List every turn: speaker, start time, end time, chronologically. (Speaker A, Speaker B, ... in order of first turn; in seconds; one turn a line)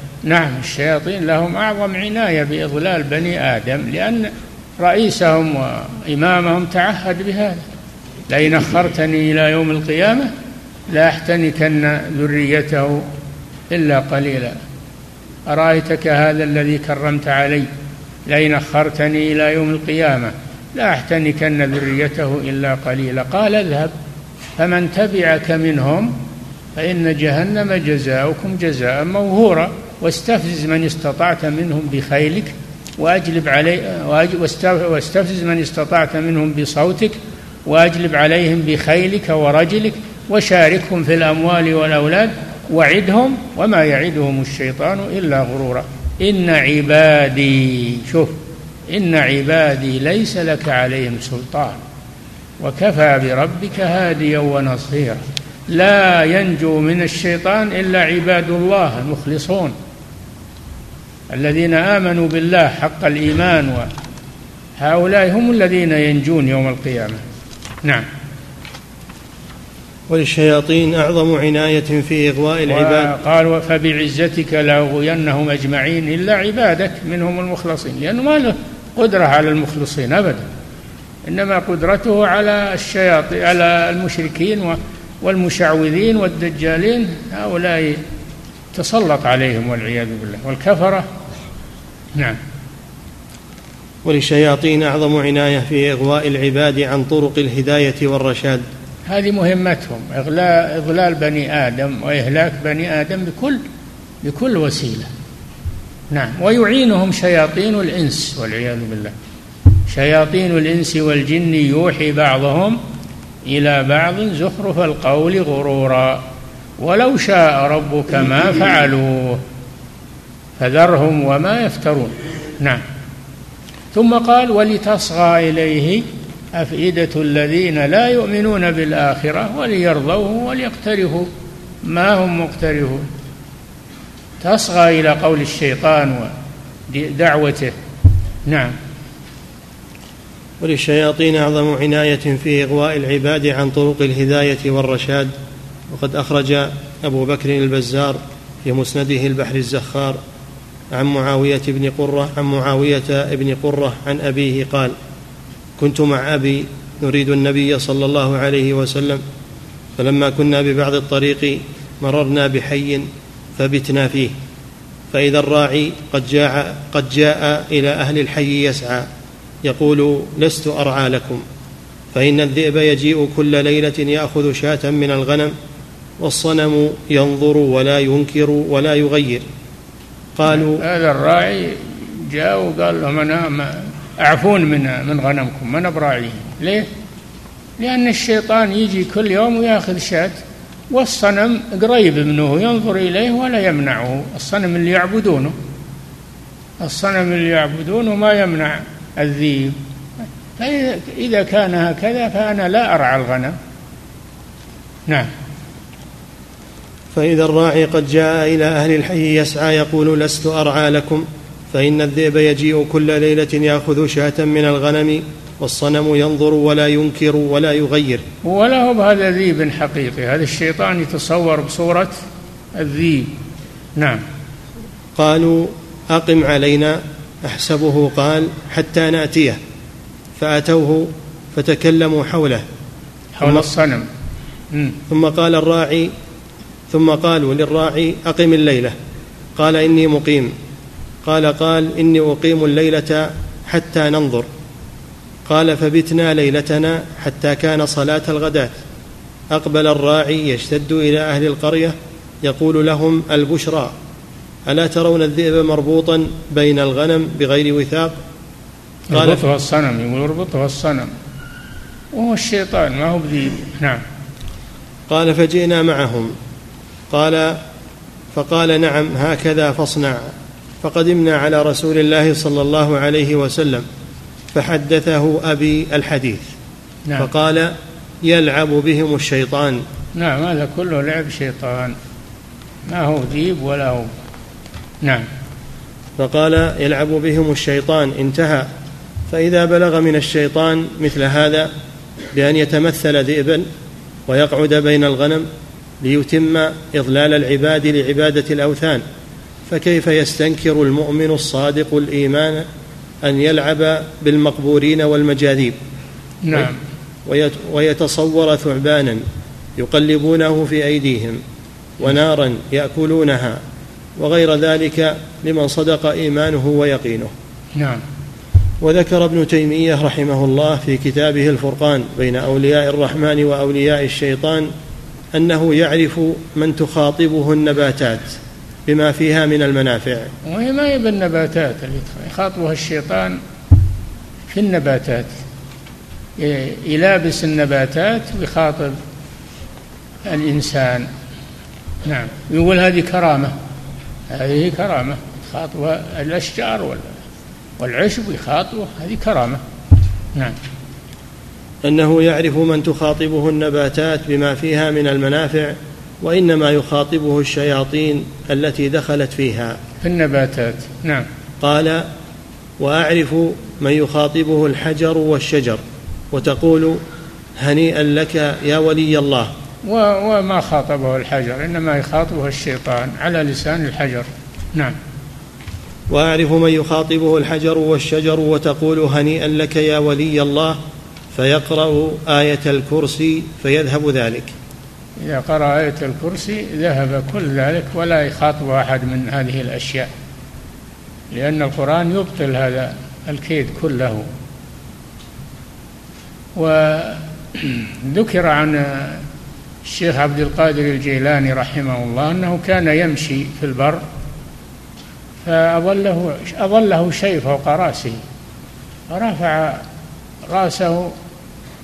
Speaker A: 0.2-7.7
Speaker A: 8.3-10.3
Speaker A: 10.9-13.1
Speaker A: 13.7-14.6
Speaker A: 15.5-17.7
Speaker A: 18.3-23.9
Speaker A: 24.6-26.2
Speaker A: 26.8-51.8
Speaker A: 52.6-59.8
Speaker A: 61.3-63.9
Speaker A: 64.8-67.2
Speaker B: 70.1-73.1
Speaker A: 72.7-80.5
Speaker A: 81.3-88.0
Speaker A: 88.7-91.1
Speaker B: 94.0-98.7
Speaker A: 99.1-103.6
Speaker A: 104.2-105.1
Speaker A: 106.1-109.2
Speaker A: 109.9-112.8
Speaker A: 113.5-116.2
Speaker A: 116.8-119.4
Speaker A: 120.6-122.8
Speaker A: 123.9-131.3
Speaker A: 131.8-133.1
Speaker A: 134.4-136.3
Speaker A: 136.9-137.7
Speaker A: 138.5-138.8
Speaker B: 140.6-145.3
Speaker B: 145.9-150.2
Speaker B: 150.9-154.9
Speaker B: 155.8-159.2
Speaker B: 160.0-163.1
Speaker B: 163.6-164.3
Speaker B: 165.1-169.1
Speaker B: 169.6-171.4
Speaker B: 172.1-175.5
Speaker B: 176.2-179.4
Speaker B: 180.4-180.8
Speaker A: 180.6-186.9
Speaker A: 187.8-195.6
Speaker A: 196.8-199.8
Speaker A: 200.6-203.6
Speaker B: 207.1-218.2
Speaker A: 218.4-222.2
Speaker A: 222.8-223.3
Speaker A: 224.0-224.2
Speaker B: 225.2-229.6
Speaker B: 230.4-232.6
Speaker A: 233.3-234.1
Speaker B: 233.4-233.7
Speaker A: 234.7-235.0
Speaker B: 235.1-236.1
Speaker B: 236.9-238.9
Speaker B: 239.6-240.5
Speaker B: 241.2-244.5
Speaker B: 245.5-248.8
Speaker B: 249.5-253.9
Speaker B: 254.7-258.1
Speaker A: 259.1-261.1
Speaker B: 259.1-259.4
Speaker A: 262.1-264.0
Speaker B: 265.1-266.3
Speaker B: 267.1-267.6
Speaker B: 268.3-273.9
Speaker B: 274.5-276.5
Speaker B: 277.2-279.8
Speaker A: 280.1-282.0
Speaker A: 282.9-284.1
Speaker A: 285.0-285.3
Speaker B: 286.2-288.7
Speaker B: 289.3-291.7
Speaker B: 292.3-293.7
Speaker B: 294.3-295.5
Speaker B: 296.0-299.0
Speaker B: 299.7-302.7
Speaker B: 303.2-305.8
Speaker A: 306.4-306.8
Speaker B: 307.3-309.2
Speaker B: 309.8-311.4
Speaker B: 312.0-313.6
Speaker B: 314.2-317.3
Speaker A: 317.8-318.0
Speaker B: 318.8-324.7
Speaker B: 325.3-330.3
Speaker A: 330.4-333.4
Speaker A: 334.5-335.4
Speaker A: 336.4-339.0
Speaker A: 340.2-341.1
Speaker A: 342.1-343.5
Speaker A: 344.3-347.2
Speaker A: 347.8-349.6
Speaker B: 351.8-359.8
Speaker A: 360.0-361.3
Speaker B: 361.6-362.1
Speaker B: 362.8-367.0
Speaker B: 367.6-369.5
Speaker A: 369.8-375.0
Speaker B: 376.1-380.8
Speaker B: 381.3-384.5
Speaker A: 385.2-390.1
Speaker A: 391.3-394.3
Speaker A: 396.6-399.2
Speaker A: 399.8-404.0
Speaker A: 405.4-408.2
Speaker A: 409.1-409.9
Speaker A: 410.4-411.1